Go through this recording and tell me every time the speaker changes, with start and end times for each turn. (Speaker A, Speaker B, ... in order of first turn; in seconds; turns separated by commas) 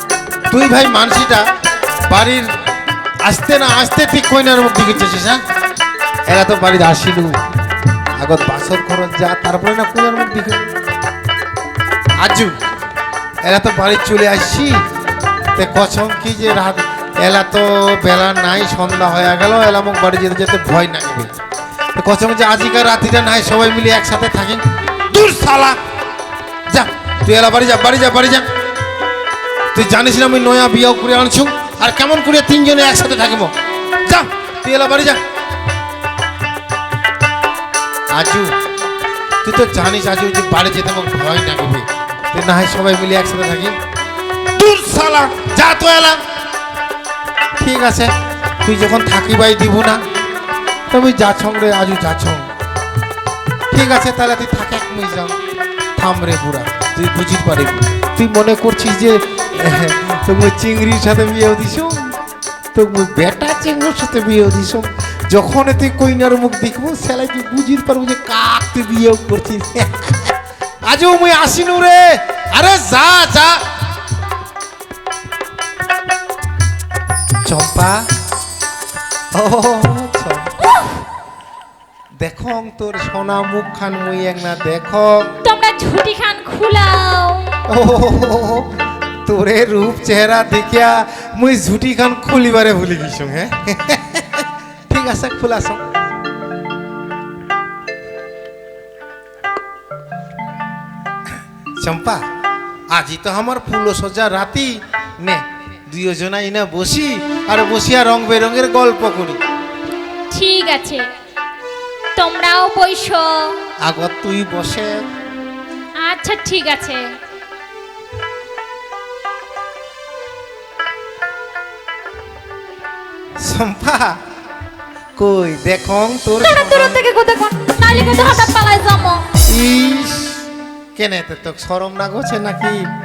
Speaker A: 0.5-1.5, Speaker A: 2.1-2.5, Speaker A: 3.2-5.4, Speaker A: 6.3-7.3, Speaker A: 8.2-10.6, Speaker A: 12.2-12.6, Speaker A: 13.4-14.8, Speaker A: 15.6-21.3, Speaker A: 21.9-25.8, Speaker A: 26.7-28.5, Speaker A: 29.7-33.5, Speaker A: 34.0-35.2, Speaker A: 38.1-38.5, Speaker A: 39.4-43.8, Speaker A: 44.5-46.2, Speaker A: 47.6-48.1, Speaker A: 48.6-50.0, Speaker A: 50.9-52.5, Speaker A: 53.7-55.3, Speaker A: 56.0-62.1, Speaker A: 62.7-70.3, Speaker A: 70.9-73.6, Speaker A: 77.5-78.1, Speaker A: 79.3-80.5, Speaker A: 82.2-85.3, Speaker B: 85.4-87.6, Speaker A: 87.7-95.8, Speaker A: 101.8-102.2, Speaker A: 102.9-109.4, Speaker B: 110.3-111.1, Speaker B: 112.2-113.6, Speaker A: 113.8-115.1, Speaker B: 116.0-117.1, Speaker A: 123.4-124.2, Speaker A: 125.2-127.0, Speaker B: 126.4-129.3, Speaker A: 127.9-128.5, Speaker A: 129.5-132.9